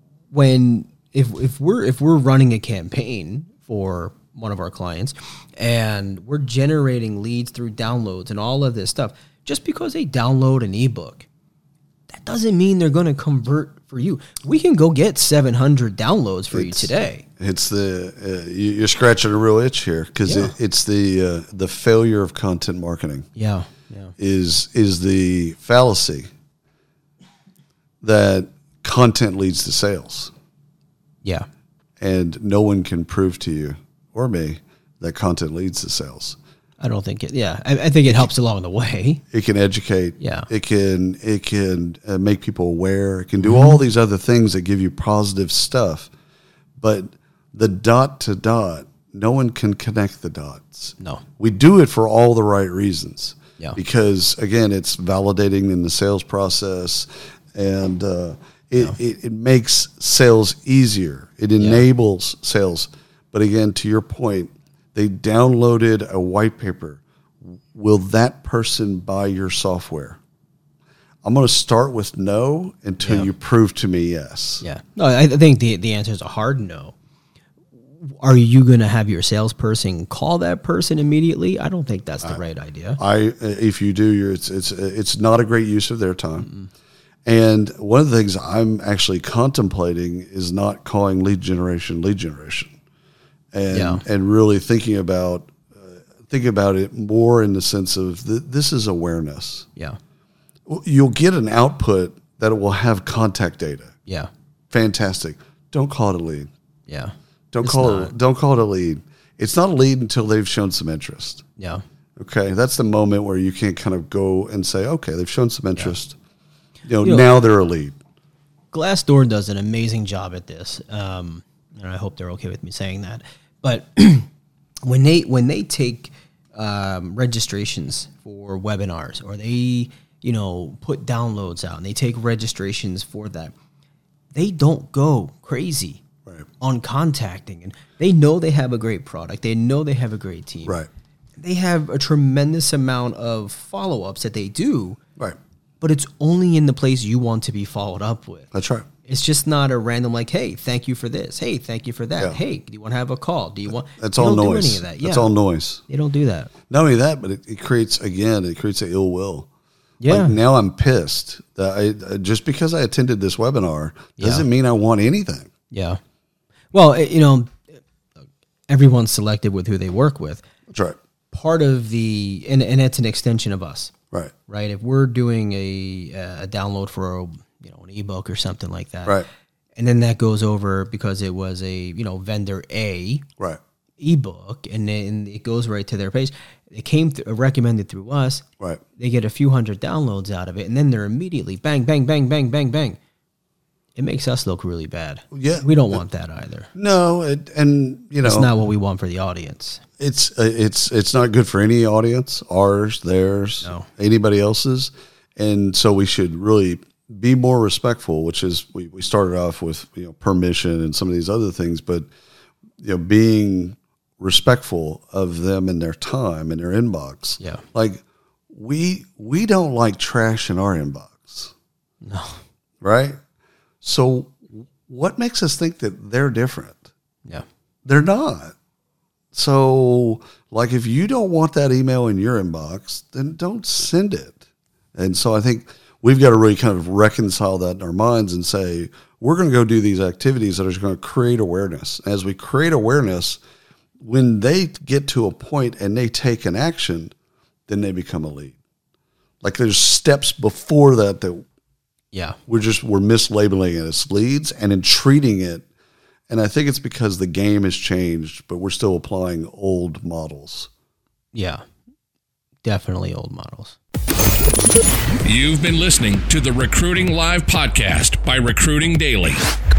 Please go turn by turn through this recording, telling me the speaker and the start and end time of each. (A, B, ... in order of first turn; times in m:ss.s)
0:00.3-0:11.3 A
0:12.1-0:17.2 A
0:16.5-0:23.3 B
0:20.2-0:20.5 A
0:23.3-0:24.1 A
0:24.2-0:26.3 B
0:28.0-0:30.3 B
0:32.0-0:36.4 B
0:36.8-0:39.2 A
0:39.3-0:46.1 B
0:40.2-0:40.5 A
0:43.4-0:43.8 A
0:46.8-1:10.2 B
1:01.6-1:01.8 A
1:11.2-1:14.6 B
1:13.0-1:13.3 A
1:14.6-1:16.9 A
1:18.0-1:23.0 A
1:23.0-1:26.5 B
1:26.4-1:26.7 A
1:27.2-1:32.7 B
1:33.5-1:39.7 B
1:33.7-1:34.0 A
1:40.6-1:43.9 B
1:44.0-1:44.3 A
1:44.7-1:46.5 B
1:46.9-1:48.1 A
1:47.5-1:51.4 B
1:51.6-1:51.8 A
1:52.2-1:56.2 B
1:56.8-1:57.9 B
1:57.0-1:57.3 A
1:58.7-2:04.3 A
2:04.8-2:13.5 A
2:14.3-2:16.0 A
2:16.6-2:20.8 A
2:21.4-2:25.0 A
2:25.8-2:28.5 A
2:28.5-2:28.9 B
2:29.0-2:35.3 A
2:33.9-2:35.8 B
2:35.9-2:36.5 A
2:36.7-2:39.5 B
2:40.0-2:40.4 A
2:40.1-2:45.5 B
2:44.2-2:44.5 A
2:45.7-2:46.0 A
2:46.7-2:47.6 A
2:48.7-2:50.4 A
2:50.7-2:51.0 B
2:51.3-2:53.9 A
2:54.5-2:59.2 A
2:59.8-3:03.2 A
3:04.0-3:08.4 A
3:09.0-3:13.0 A
3:14.0-3:16.7 A
3:15.3-3:16.0 B
3:16.7-3:18.5 B
3:18.2-3:19.8 A
3:20.0-3:32.1 B
3:23.6-3:23.9 A
3:32.8-3:41.5 B
3:42.0-3:42.4 A
3:42.8-3:43.2 B
3:43.8-3:46.8 B
3:47.8-3:48.5 B
3:49.3-3:54.4 B
3:54.9-4:03.4 B
4:04.0-4:07.1 B
4:07.7-4:08.6 B
4:09.4-4:11.4 B
4:12.1-4:12.4 A
4:12.5-4:15.6 B
4:16.3-4:20.7 B
4:21.3-4:21.6 A
4:22.6-4:23.8 A
4:25.2-4:29.4 C